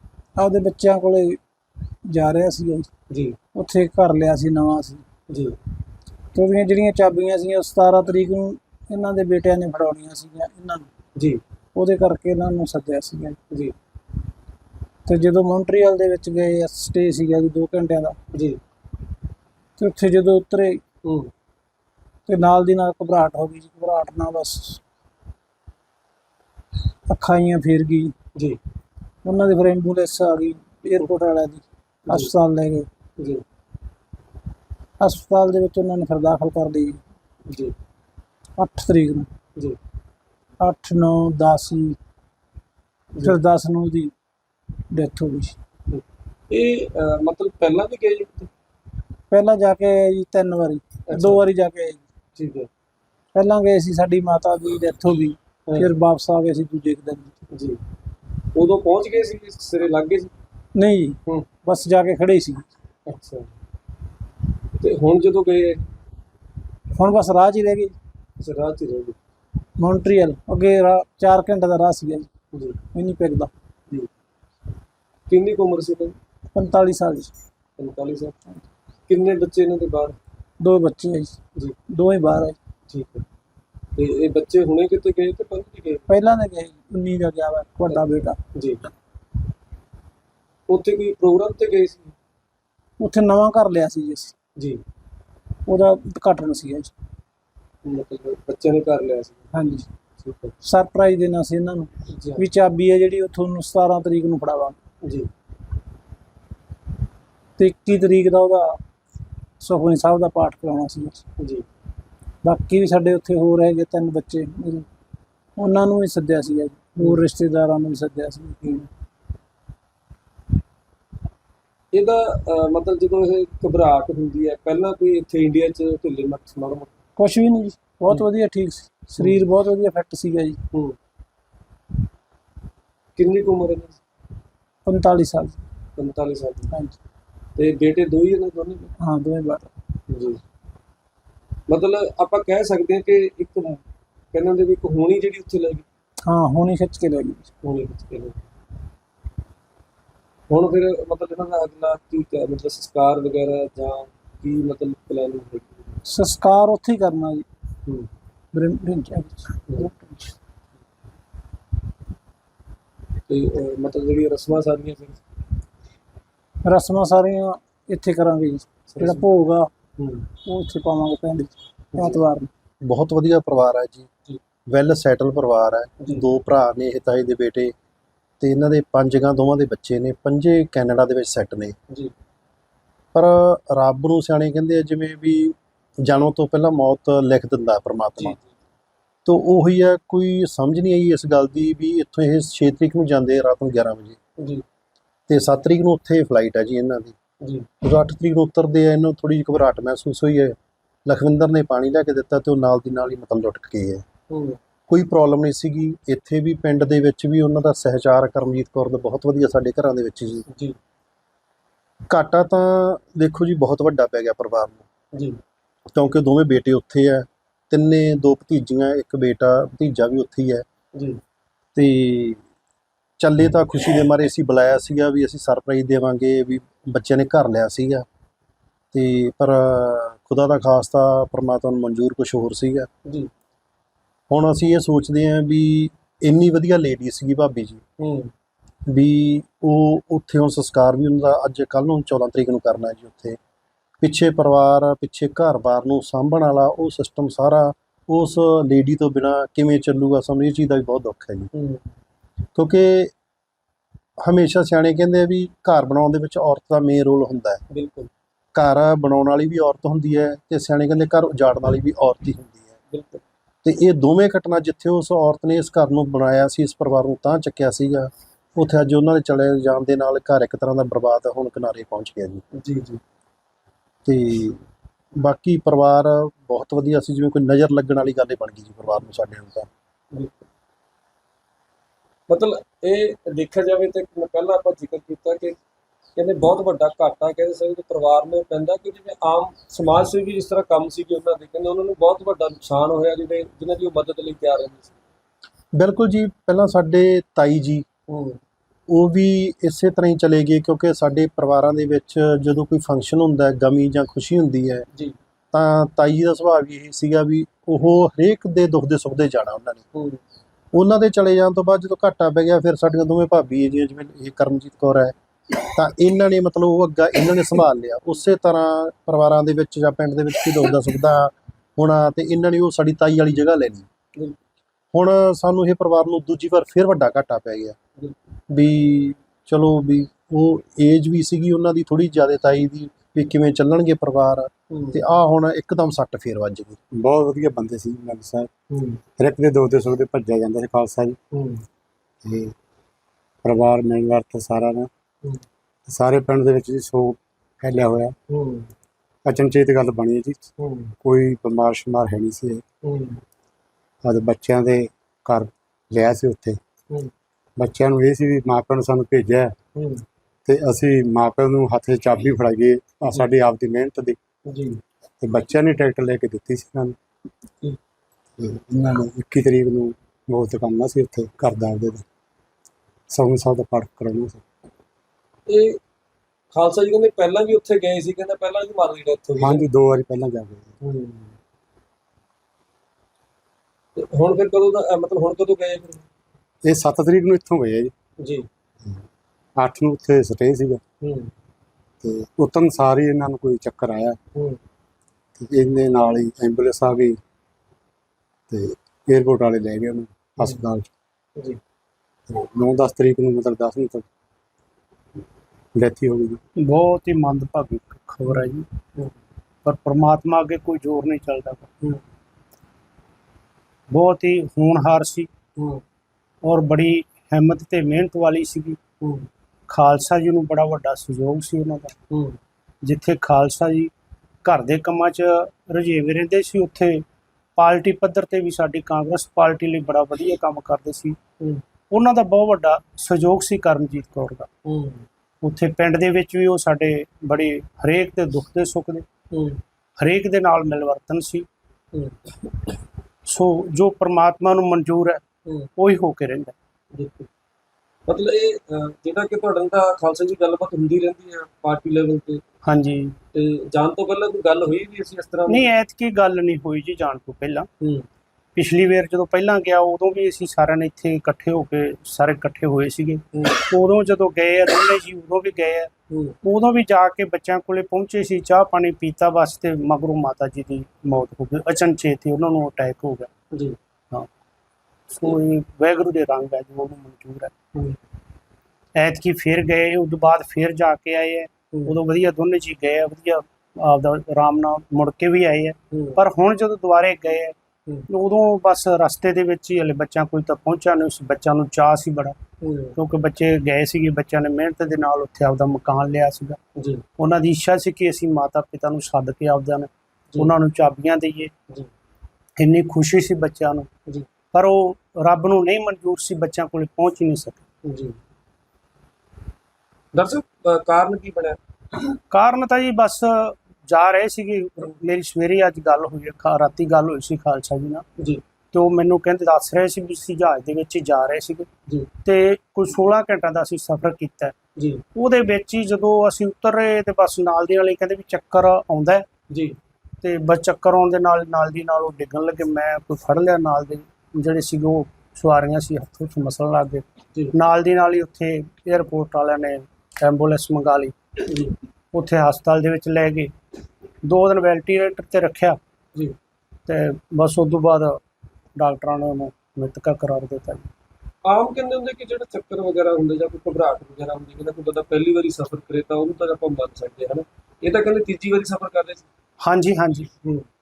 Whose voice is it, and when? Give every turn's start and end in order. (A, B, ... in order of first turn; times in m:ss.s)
0:00.4-0:01.4 A
0:02.1-0:02.9 A
0:03.1-0:03.4 B
0:03.5-0:05.0 A
0:05.3-0:05.6 B
0:06.3-0:10.9 A
0:11.2-0:11.4 B
0:11.7-0:13.4 A
0:15.1-0:18.2 A
0:18.3-0:18.6 B
0:19.8-0:20.8 A
0:21.0-0:21.3 B
0:22.3-0:24.8 A
0:27.1-0:28.1 A
0:29.2-0:32.9 A
0:32.1-0:32.3 B
0:35.0-0:37.0 A
0:37.5-0:37.7 B
0:38.6-0:39.3 A
0:40.6-0:42.0 A
0:43.2-0:44.1 A
0:44.9-0:45.6 A
0:45.9-0:48.5 B
0:49.3-0:52.0 A
0:51.1-0:51.4 B
0:52.4-0:52.7 B
0:53.3-0:57.4 A
0:57.5-0:57.8 B
0:58.5-1:00.3 B
1:00.8-1:02.7 A
1:03.1-1:03.5 B
1:04.8-1:05.8 B
1:07.0-1:07.9 A
1:08.4-1:09.2 B
1:09.8-1:12.3 A
1:12.5-1:12.8 B
1:12.9-1:13.5 A
1:15.3-1:16.1 B
1:16.6-1:17.3 A
1:17.8-1:18.3 B
1:19.1-1:20.2 B
1:20.6-1:21.4 A
1:21.9-1:22.6 A
1:22.9-1:23.2 B
1:24.0-1:26.0 B
1:26.1-1:28.4 A
1:28.6-1:28.8 B
1:30.7-1:32.1 B
1:33.0-1:34.3 A
1:35.7-1:36.9 A
1:37.8-1:39.5 B
1:39.5-1:39.9 A
1:40.2-1:40.6 B
1:40.6-1:44.8 A
1:42.1-1:42.4 B
1:45.0-1:45.3 B
1:47.6-1:48.8 A
1:49.6-1:51.2 A
1:51.4-1:51.6 B
1:52.4-1:54.9 A
1:55.6-1:58.9 A
2:01.9-2:06.9 B
2:07.2-2:10.6 A
2:13.2-2:14.0 B
2:14.8-2:15.6 A
2:16.0-2:16.7 B
2:16.7-2:17.0 A
2:17.6-2:18.9 B
2:19.0-2:19.7 A
2:20.1-2:20.4 B
2:21.7-2:23.8 B
2:24.3-2:25.8 B
2:26.2-2:27.5 A
2:27.6-2:28.4 B
2:30.5-2:35.9 B
2:36.0-2:37.4 A
2:38.5-2:40.3 A
2:43.3-2:45.2 B
2:46.6-2:49.7 A
2:48.9-2:49.2 B
2:50.0-2:50.2 B
2:50.4-2:52.5 A
2:52.0-2:52.2 B
2:52.8-2:54.1 C
2:54.7-2:57.7 C
2:58.4-3:01.8 C
3:03.1-3:08.4 C
3:08.2-3:08.5 B
3:09.2-3:14.2 C
3:15.3-3:17.1 C
3:17.8-3:24.0 C
3:24.3-3:24.6 B
3:24.9-3:30.4 C
3:32.1-3:34.8 C
3:35.1-3:35.4 B
3:35.9-3:40.6 C
3:40.9-3:41.2 B
3:41.7-3:42.4 C
3:43.2-3:48.0 C
3:48.9-3:52.9 C
3:54.3-3:57.8 C
3:58.0-3:58.3 B
3:58.9-4:03.4 C
4:04.0-4:11.5 C
4:11.5-4:11.8 B
4:12.5-4:13.1 C
4:14.2-4:17.6 C
4:17.7-4:18.1 B
4:18.5-4:22.7 C
4:22.9-4:23.2 B
4:23.6-4:32.4 C
4:32.6-4:33.0 B
4:34.0-4:34.6 C
4:35.2-4:39.7 C
4:42.3-4:45.6 B
4:46.2-4:55.0 B
4:55.8-4:57.8 C
4:58.1-4:58.4 B
4:58.9-5:04.9 C
5:05.5-5:09.8 C
5:10.7-5:23.9 C
5:24.9-5:27.8 C
5:28.5-5:36.8 C
5:34.7-5:35.0 B
5:36.9-5:38.5 D
5:38.7-5:39.0 B
5:39.2-5:41.2 D
5:41.3-5:41.6 B
5:42.2-5:42.5 D
5:43.4-5:44.9 D
5:45.9-5:48.2 D
5:48.3-5:48.7 B
5:49.2-5:50.5 D
5:50.6-5:50.9 B
5:51.0-5:52.6 D
5:52.8-5:53.2 B
5:54.0-5:56.6 D
5:57.6-5:59.6 D
5:59.8-6:00.0 B
6:00.5-6:04.2 D
6:04.5-6:04.8 B
6:05.2-6:07.0 D
6:08.4-6:12.0 D
6:13.1-6:14.4 D
6:15.5-6:15.8 B
6:16.5-6:19.6 B
6:19.4-6:20.7 D
6:20.8-6:21.3 B
6:24.0-6:26.1 B
6:26.6-6:27.9 D
6:28.2-6:28.5 B
6:29.6-6:30.8 D
6:31.0-6:31.3 B
6:32.0-6:34.2 D
6:35.4-6:37.2 D
6:38.5-6:40.9 D
6:42.3-6:44.1 D
6:45.8-6:46.4 D
6:46.6-6:48.6 E
6:49.6-6:51.7 E
6:53.9-6:55.3 E
6:55.6-6:55.8 B
6:56.4-6:58.8 E
6:59.0-6:59.3 B
6:59.7-7:01.9 E
7:02.1-7:02.4 B
7:02.8-7:03.9 E
7:04.4-7:07.0 E
7:07.6-7:11.2 E
7:11.9-7:14.5 E
7:14.7-7:15.0 B
7:15.4-7:19.0 E
7:19.3-7:19.6 B
7:20.0-7:21.5 E
7:23.3-7:25.2 E
7:25.8-7:26.5 E
7:26.9-7:27.3 B
7:28.1-7:32.4 B
7:32.7-7:33.2 E
7:33.3-7:35.6 B
7:35.5-7:37.7 E
7:38.6-7:45.9 E
7:43.3-7:43.6 B
7:46.1-7:46.4 B
7:46.4-7:53.3 E
7:55.1-7:57.5 E
7:58.9-8:07.6 E
8:05.9-8:06.2 B
8:08.1-8:12.4 E
8:12.6-8:13.0 B
8:13.0-8:16.6 E
8:16.8-8:17.0 B
8:17.2-8:21.5 E
8:22.6-8:23.9 E
8:24.5-8:27.6 E
8:27.9-8:28.2 B
8:30.1-8:31.6 B
8:32.3-8:38.0 E
8:38.7-8:41.7 E
8:42.2-8:44.6 E
8:44.8-8:45.0 B
8:45.1-8:49.2 E
8:49.5-8:49.8 B
8:50.2-9:01.1 E
9:01.5-9:01.8 B
9:02.1-9:03.5 E
9:04.2-9:05.8 E
9:06.9-9:08.2 E
9:08.8-9:10.9 E
9:11.4-9:19.3 B
9:19.6-9:20.3 E